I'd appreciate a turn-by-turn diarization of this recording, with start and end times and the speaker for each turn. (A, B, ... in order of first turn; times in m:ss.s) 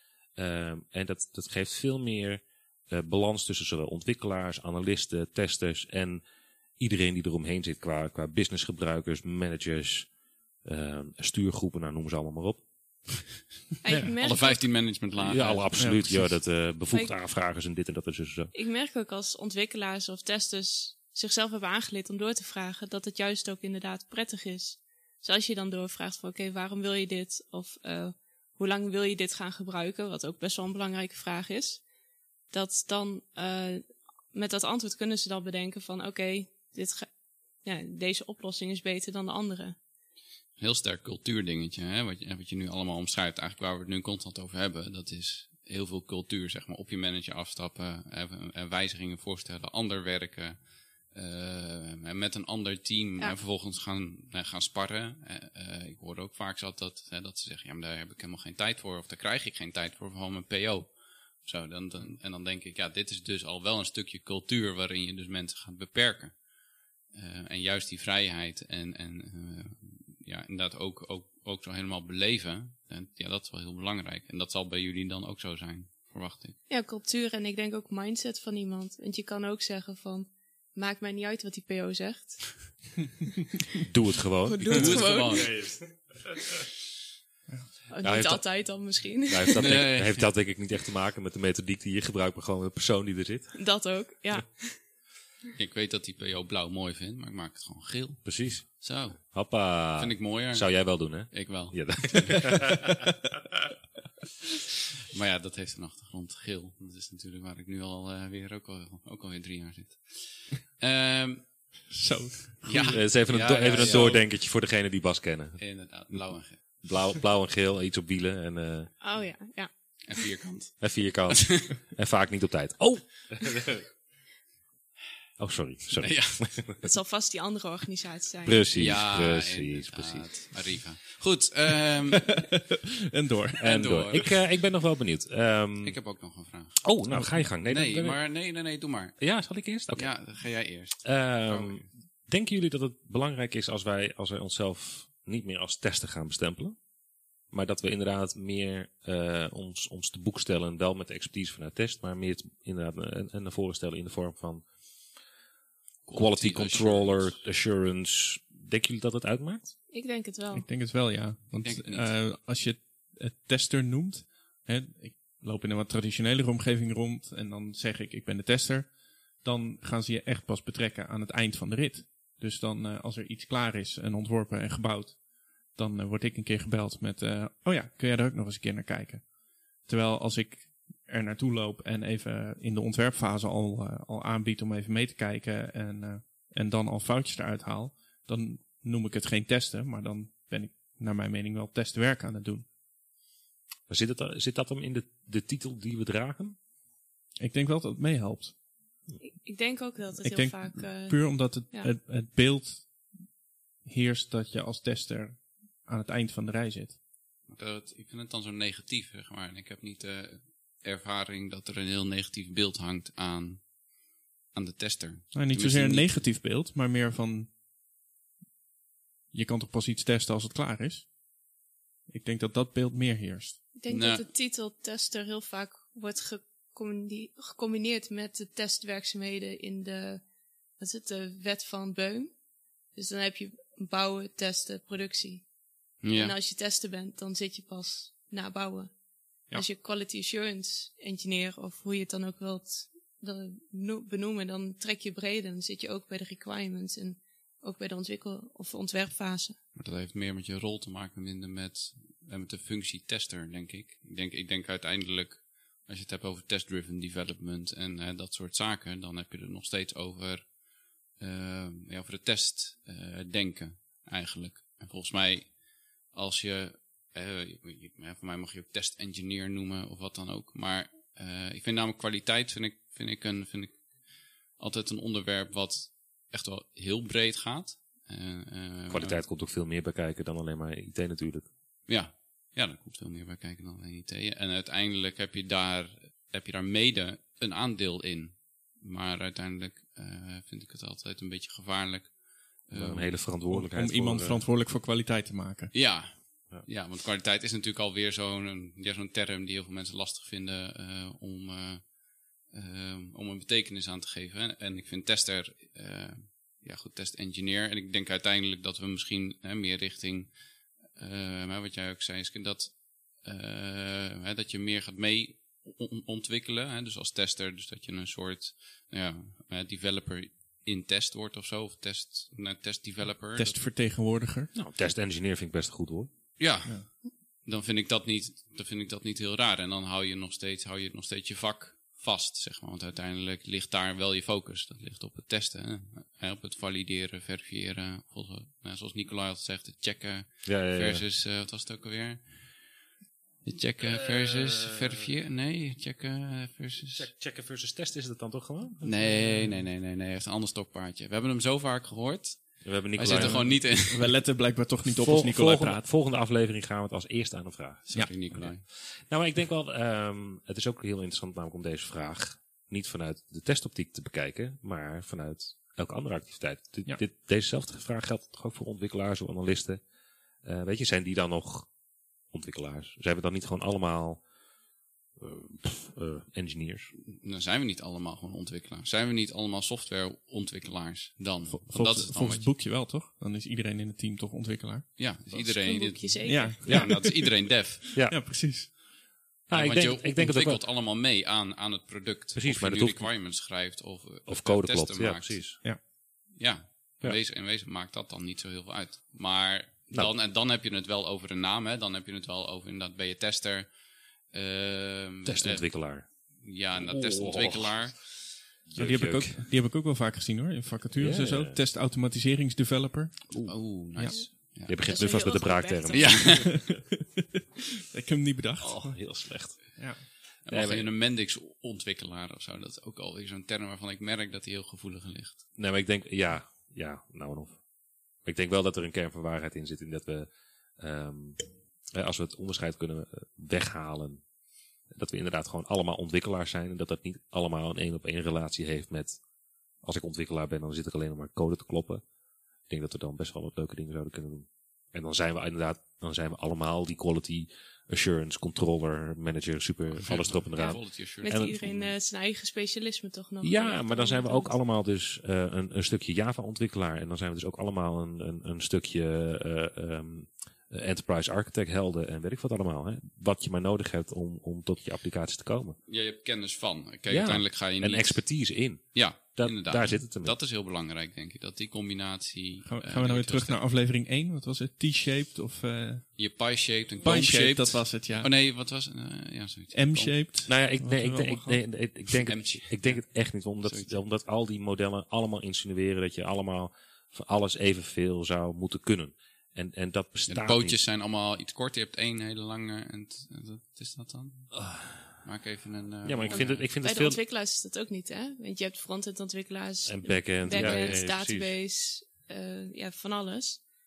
0:00.4-0:06.2 A
0:06.8-0:10.1 A
0:10.6-0:12.6 A
0:13.8-0:14.6 B
0:13.9-0:14.1 A
0:14.2-0:16.0 C
0:15.1-0:18.5 A
0:15.8-0:16.3 D
0:18.5-0:31.8 B
0:32.5-0:37.1 B
0:37.6-0:39.8 B
0:40.6-1:06.4 C
1:07.1-1:16.6 C
1:16.7-1:22.7 B
1:23.8-1:25.9 A
1:24.4-1:25.5 B
1:24.7-1:25.7 C
1:27.9-1:29.8 B
1:28.0-1:28.6 A
1:29.3-1:33.6 A
1:29.5-1:30.3 C
1:33.5-1:34.8 B
1:35.6-1:39.3 C
1:38.2-1:43.0 A
1:39.9-1:42.5 C
1:45.1-1:51.7 C
1:51.9-1:53.0 D
1:52.6-1:54.2 C
1:52.8-1:55.6 A
1:53.7-1:54.2 D
1:55.6-1:56.8 C
1:56.8-1:58.9 A
1:59.0-1:59.7 B
2:00.0-2:01.8 C
2:00.8-2:03.8 A
2:05.4-2:06.9 A
2:06.0-2:06.5 C
2:06.8-2:08.6 B
2:08.4-2:10.3 A
2:08.7-2:12.4 C
2:12.1-2:13.6 D
2:13.6-2:16.0 A
2:13.6-2:14.4 C
2:15.8-2:16.9 C
2:16.8-2:18.2 A
2:17.1-2:17.4 D
2:17.6-2:19.2 C
2:19.2-2:20.1 A
2:19.9-2:21.9 C
2:21.0-2:26.8 A
2:27.5-2:34.6 A
2:36.1-2:37.4 C
2:36.1-2:39.7 A
2:39.9-2:40.6 B
2:40.5-2:59.3 D
2:41.6-2:42.1 C
2:59.8-3:12.6 D
3:13.9-3:16.6 A
3:17.4-3:18.5 D
3:19.2-3:21.9 B
3:20.2-3:23.0 D
3:23.8-3:27.0 D
3:27.5-3:33.8 C
3:34.5-3:36.1 C
3:35.3-3:37.5 D
3:39.3-3:41.1 D
3:42.1-3:43.6 D
3:43.7-3:50.2 B
3:43.9-3:44.2 C
3:50.8-3:52.3 B
3:52.9-3:55.4 B
3:56.0-3:56.3 C
3:56.1-3:58.9 B
3:59.5-4:09.6 B
4:09.7-4:20.6 C
4:21.1-4:39.2 C
4:38.9-4:41.5 A
4:41.9-4:53.2 C
4:52.7-4:54.4 A
4:53.5-4:55.7 D
4:55.7-5:23.6 C
5:23.4-5:24.5 D
5:24.5-5:26.1 A
5:26.4-5:42.5 C
5:40.4-5:41.0 A
5:43.4-5:47.1 C
5:43.8-5:45.1 A
5:46.9-5:49.5 A
5:48.8-5:54.2 C
5:52.6-5:53.6 A
5:53.0-5:55.8 D
5:54.9-6:09.8 A
5:57.9-5:58.6 C
6:10.4-6:11.7 A
6:12.3-6:14.2 A
6:15.2-6:16.9 A
6:17.0-6:22.5 C
6:21.5-6:24.9 D
6:25.0-6:27.9 C
6:25.3-6:26.6 B
6:26.2-6:28.8 D
6:26.6-6:27.0 A
6:27.9-6:28.2 A
6:29.5-6:30.6 A
6:29.5-6:35.5 C
6:32.3-6:33.1 A
6:34.3-6:35.6 A
6:36.3-6:45.7 C
6:45.2-6:46.1 A
6:46.3-6:48.3 C
6:46.7-6:47.9 A
6:48.7-6:49.4 A
6:48.7-6:53.3 D
6:51.0-6:51.6 A
6:53.3-6:54.8 C
6:54.6-6:56.8 A
6:54.8-6:56.4 B
6:55.9-6:56.7 C
6:56.3-6:57.2 D
6:57.9-6:59.0 D
6:58.6-6:59.8 A
6:59.8-7:00.0 D
7:00.4-7:05.4 C
7:00.5-7:00.9 A
7:05.6-7:07.6 A
7:08.2-7:10.3 A
7:10.8-7:11.4 A
7:11.9-7:14.2 A
7:14.9-7:19.2 A
7:19.8-7:22.0 A
7:22.7-7:31.9 A
7:30.0-7:31.5 C
7:30.6-7:34.5 B
7:33.4-7:45.8 A
7:45.9-7:48.2 C
7:47.1-7:50.4 A
7:48.9-7:53.6 C
7:52.6-7:56.2 D
7:56.2-8:00.2 C
7:57.0-7:58.3 D
7:59.7-8:01.6 D
8:00.4-8:10.8 A
8:02.1-8:03.0 C
8:03.6-8:04.0 C
8:10.3-8:14.6 C
8:14.5-8:15.2 A
8:15.2-8:16.6 C
8:16.0-8:17.2 A
8:16.3-8:23.6 B
8:19.8-8:21.5 A
8:20.5-8:21.0 C